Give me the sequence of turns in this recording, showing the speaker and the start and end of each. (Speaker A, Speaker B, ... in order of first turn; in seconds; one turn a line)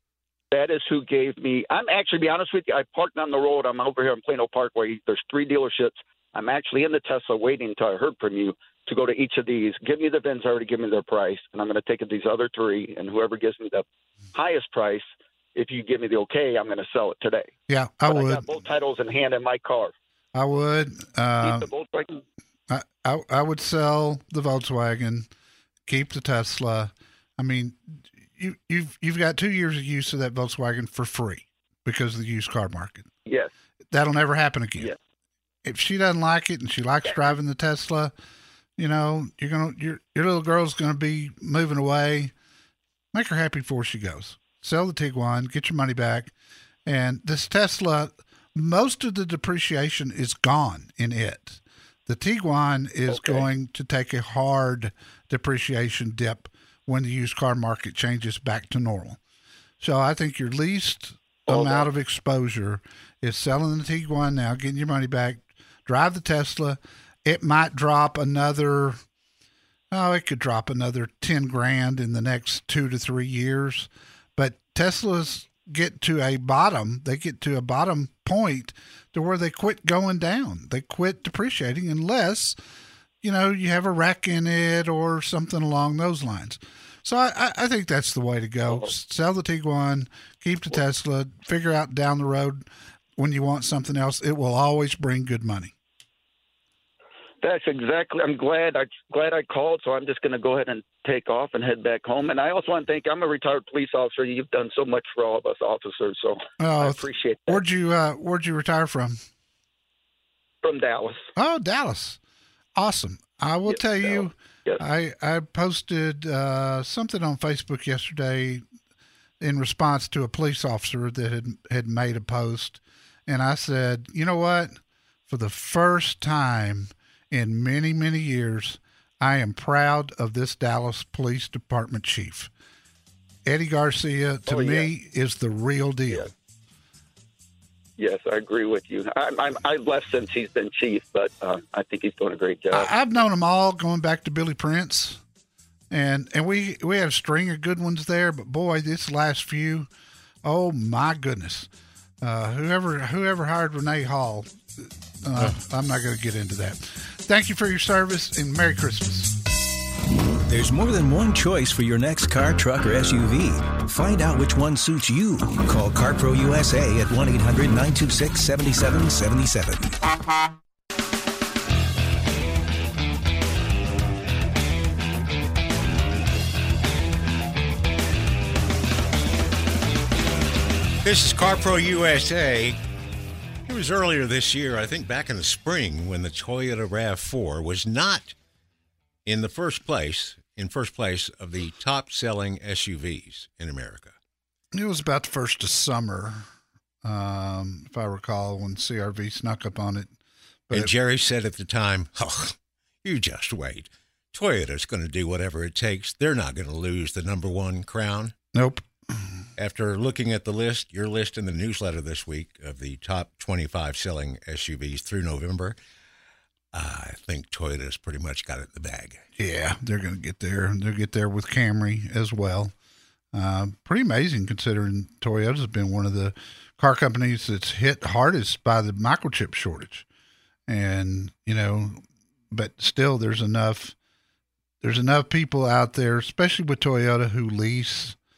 Speaker A: 0.5-17.5
Speaker B: 17.7-18.4
Speaker A: 18.1-19.9
Speaker B: 20.4-21.7
Speaker A: 21.4-22.2
Speaker B: 22.7-25.3
Speaker B: 25.9-33.1
Speaker B: 33.9-34.9
Speaker B: 35.6-38.1
Speaker B: 38.8-42.3
Speaker B: 43.1-46.3
Speaker B: 46.9-59.2
Speaker A: 53.1-53.5
Speaker B: 59.8-69.0
Speaker A: 61.5-61.9
Speaker B: 69.9-82.6
Speaker B: 83.2-92.7
Speaker B: 93.2-95.7
Speaker A: 97.4-107.6
Speaker B: 106.6-109.2
Speaker A: 110.6-111.3
Speaker B: 111.4-112.2
Speaker B: 112.8-118.6
Speaker A: 113.7-114.8
Speaker B: 119.4-132.5
Speaker B: 133.4-136.3
Speaker A: 134.5-134.9
Speaker A: 138.0-142.9
Speaker B: 142.7-145.2
Speaker B: 145.9-149.9
Speaker B: 150.4-151.7
Speaker B: 152.2-159.4
Speaker C: 160.5-170.0
Speaker D: 181.0-182.8
Speaker D: 183.7-188.3
Speaker D: 189.3-194.2
Speaker B: 194.7-196.5
Speaker B: 197.0-200.1
Speaker D: 200.7-208.3
Speaker B: 208.5-209.3
Speaker D: 209.6-215.8
Speaker D: 216.7-219.2
Speaker B: 219.4-222.7
Speaker B: 223.3-230.1
Speaker B: 230.7-233.9
Speaker B: 234.8-238.2